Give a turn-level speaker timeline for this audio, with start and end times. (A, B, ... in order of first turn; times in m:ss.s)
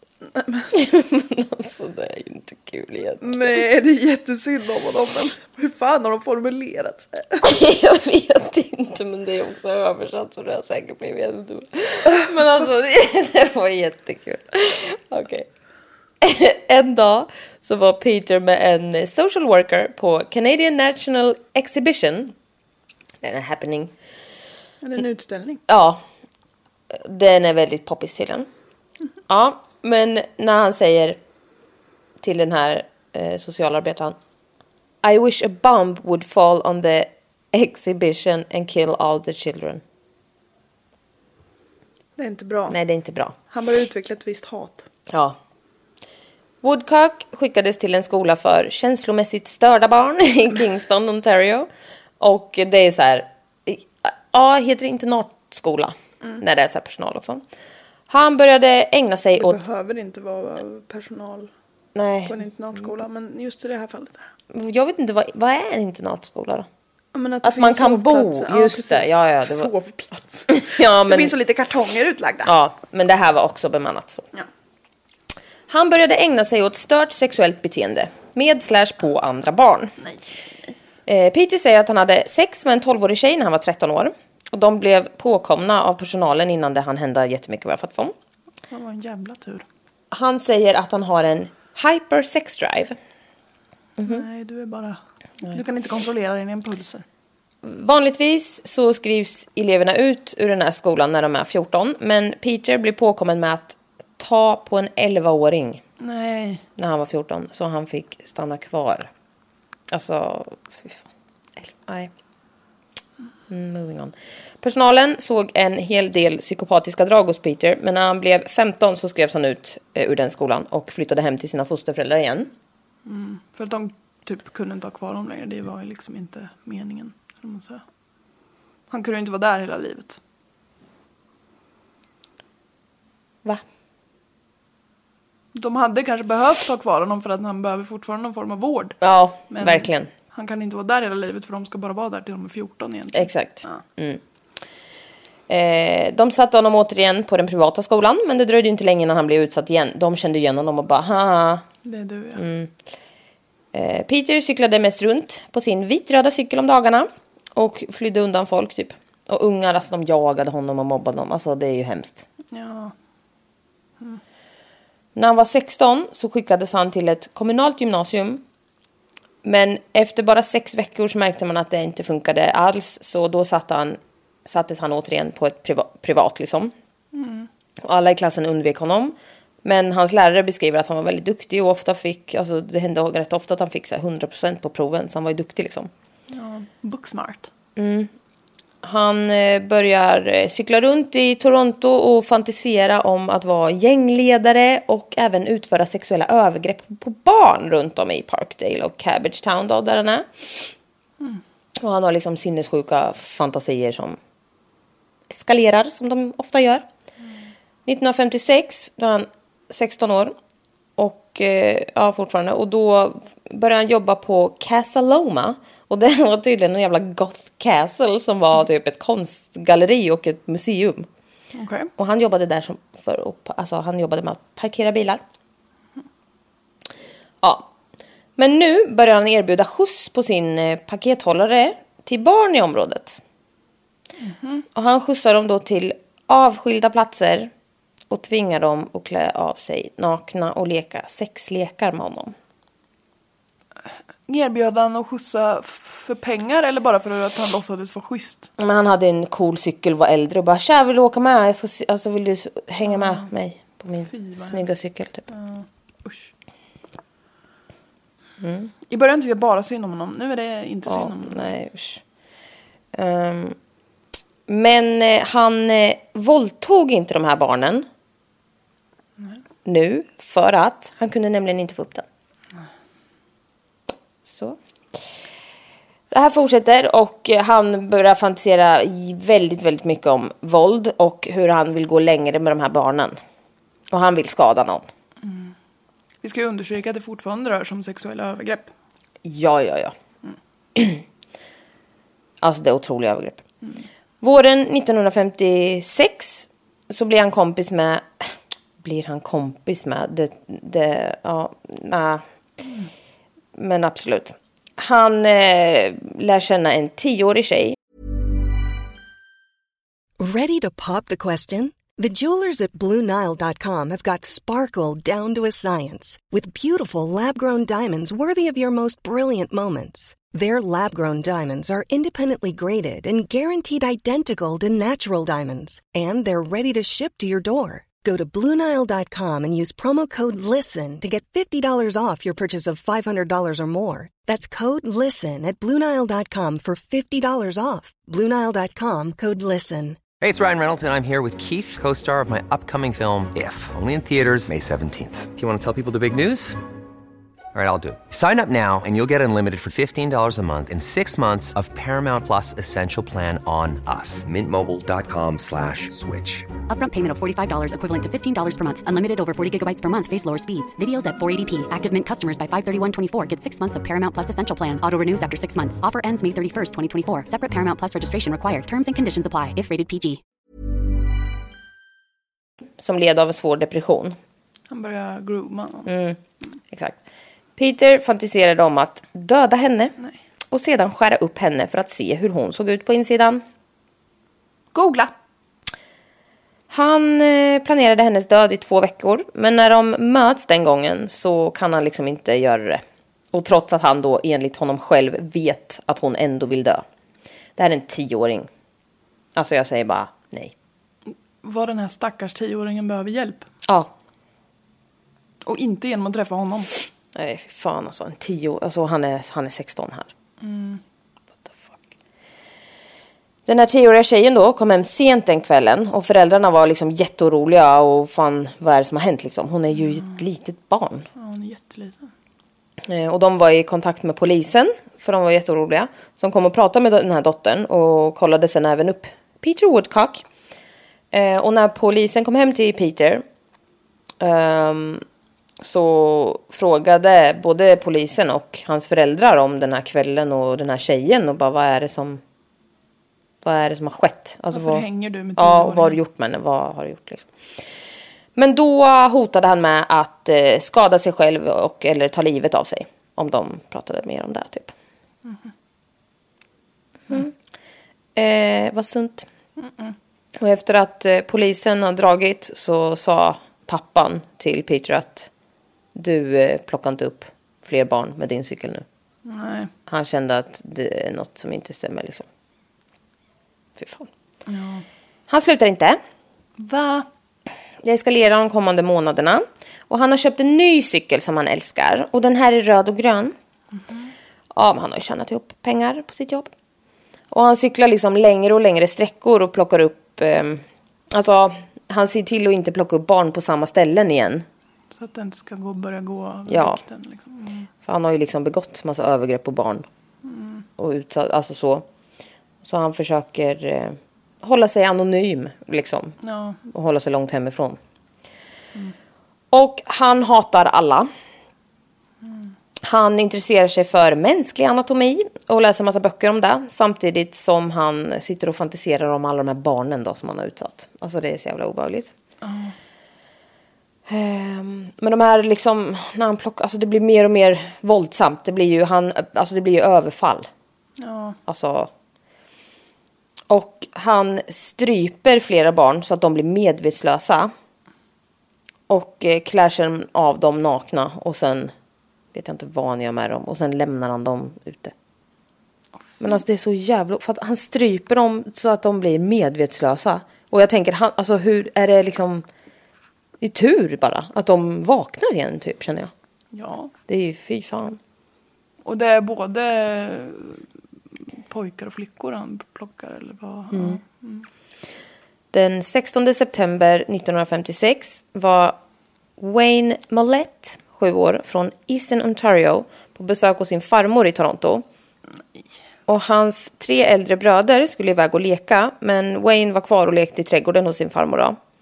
0:00.3-0:00.7 A
0:00.7-0:03.6 B
0:03.2-0:07.5 A
0:07.4-0:15.5 B
0:16.2-0:22.3 B
0:23.2-0:23.9 B
0:24.8-0:25.6 A
0:25.7-0:26.0 B
0:26.9-0:28.5 B
0:29.3-0:31.2 B
0:32.2-0:34.2 B
0:35.0-0:39.8 B
0:42.2-0:42.8 A
0:42.7-0:43.4 B
0:43.5-0:44.9 A
0:45.1-0:45.4 B
0:46.6-0:51.7 B
0:52.2-0:57.4 B
0:58.1-0:59.6 B
0:59.4-1:01.5 A
1:01.9-1:02.4 B
1:02.3-1:04.3 A
1:04.5-1:06.7 B
1:07.1-1:12.5 A
1:07.4-1:09.7 B
1:10.5-1:11.3 B
1:12.4-1:14.2 B
1:15.7-1:19.9 B
1:21.0-1:28.1 B
1:28.7-1:29.6 A
1:30.1-1:33.0 B
1:34.0-1:37.0 A
1:37.6-1:45.8 B
1:46.0-1:46.6 A
1:46.8-1:49.1 B
1:49.9-1:51.0 B
1:51.6-1:52.1 B
1:53.5-2:02.5 B
2:03.0-2:07.8 A
2:08.9-2:10.2 A
2:15.5-2:19.0 A
2:19.0-2:20.1 B
2:19.5-2:23.8 A
2:23.1-2:24.2 B
2:25.5-2:31.6 B
2:31.8-2:32.4 A
2:32.4-2:32.7 B
2:33.7-2:42.2 B
2:42.5-2:42.9 A
2:45.1-2:48.4 B
2:49.4-2:56.7 B
2:57.1-2:57.5 A
2:57.8-3:05.9 B
3:06.3-3:07.5 A
3:07.8-3:08.1 B
3:08.8-3:20.7 B
3:21.8-3:24.2 B
3:25.3-3:26.8 B
3:27.8-3:30.3 B
3:31.0-3:41.1 B
3:41.5-3:41.9 A
3:42.0-3:45.2 B
3:47.4-3:47.7 B
3:48.4-3:53.2 B
3:54.2-3:54.6 A
3:54.7-3:57.5 B
3:58.1-4:02.3 B
4:04.3-4:08.5 A
4:08.6-4:15.3 B
4:12.9-4:13.3 A
4:14.0-4:14.7 A
4:15.3-4:16.3 A
4:18.4-4:18.7 B
4:18.9-4:21.5 A
4:20.9-4:22.0 B
4:22.9-4:23.6 B
4:24.5-4:27.9 B
4:29.6-4:32.0 B
4:34.2-4:34.6 B
4:36.1-4:43.2 B
4:43.9-4:44.9 B
4:45.2-4:45.5 A
4:46.2-4:48.7 A
4:49.2-4:49.9 B
4:50.8-4:51.0 B
4:52.4-4:53.4 B
4:54.2-4:58.3 B
4:58.8-5:02.2 B
5:03.6-5:07.8 B
5:10.2-5:40.0 C
5:40.2-5:46.6 D
5:47.5-5:56.5 D
5:56.7-6:10.2 E
6:12.8-6:14.2 B
6:14.7-6:15.9 A
6:15.8-6:16.2 B
6:16.7-6:17.0 B
6:17.6-6:19.9 B
6:20.5-6:23.4 B
6:24.7-6:25.1 A
6:26.7-6:36.8 B
6:37.6-6:38.5 B
6:39.4-6:40.5 B
6:41.4-6:43.4 A
6:43.7-6:43.9 B
6:45.4-6:46.7 A
6:47.1-6:50.1 B
6:50.4-6:50.8 A
6:51.4-6:51.8 B
6:53.4-7:01.1 B
6:59.7-7:00.2 A
7:01.2-7:02.1 A
7:02.9-7:10.2 B
7:11.1-7:13.2 B
7:14.2-7:15.0 B
7:15.6-7:22.2 B
7:23.4-7:24.8 B
7:24.5-7:26.0 A
7:25.4-7:27.3 B
7:28.4-7:34.7 B
7:35.2-7:35.5 A
7:38.2-7:39.3 B
7:39.6-7:39.9 A
7:40.4-7:45.3 B
7:45.9-7:48.8 B
7:49.2-7:49.7 A
7:49.9-7:52.2 B
7:53.8-7:54.1 B
7:54.5-7:54.8 A
7:55.3-7:56.0 B
7:56.6-7:57.0 A
7:57.8-8:03.3 B
8:04.5-8:06.5 B
8:07.3-8:14.4 B
8:14.9-8:17.7 A
8:16.5-8:16.8 B
8:17.8-8:19.8 B
8:20.2-8:20.6 A
8:20.8-8:21.8 B
8:22.6-8:27.8 B
8:26.2-8:26.6 A
8:29.5-8:31.1 B
8:32.8-8:42.1 B
8:42.4-8:42.7 A
8:44.1-8:50.5 B
8:51.0-8:51.4 A
8:51.5-8:51.9 B
8:53.5-8:57.5 B
8:58.9-9:01.7 B
9:02.3-9:04.9 B
9:06.2-9:12.4 B
9:13.4-9:16.1 B
9:16.5-9:16.9 A
9:17.1-9:18.0 B
9:18.8-9:20.6 A
9:21.5-9:24.4 A
9:23.7-9:24.0 B
9:25.5-9:28.8 B
9:29.4-9:34.8 B
9:36.1-9:41.6 B